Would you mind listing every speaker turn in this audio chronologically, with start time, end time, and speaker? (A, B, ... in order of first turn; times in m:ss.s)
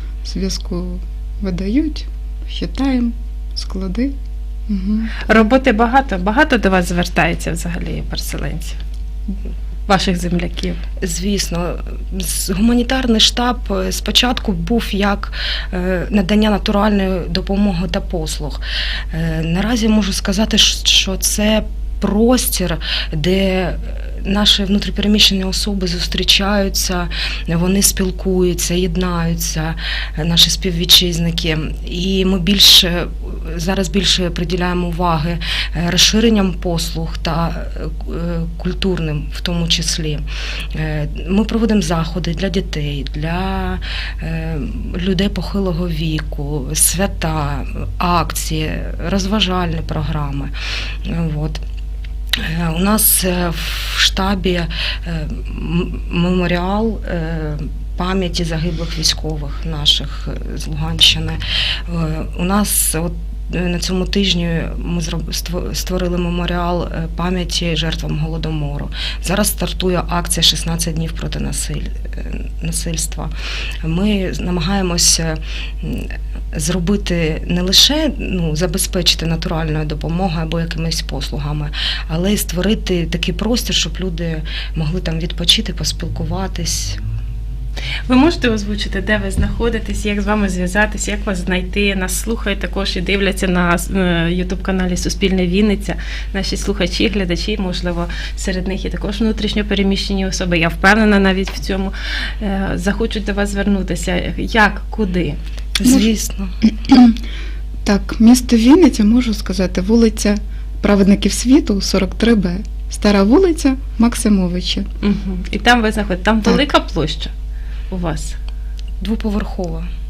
0:00.2-0:04.1 A
0:04.7-0:05.4 A
0:05.2-0:08.8 B
0:09.9-0:10.8 B
0:11.0-0:40.2 C
0:40.7-0:50.5 C
0:51.0-0:51.6 C
0:52.4-1:13.3 C
1:13.8-1:27.0 C
1:28.1-1:45.4 B
1:45.8-1:46.6 C
1:46.8-1:47.2 A
1:47.8-1:54.9 A
1:55.0-1:57.3 B
1:57.9-1:58.4 B
1:59.0-1:59.9 C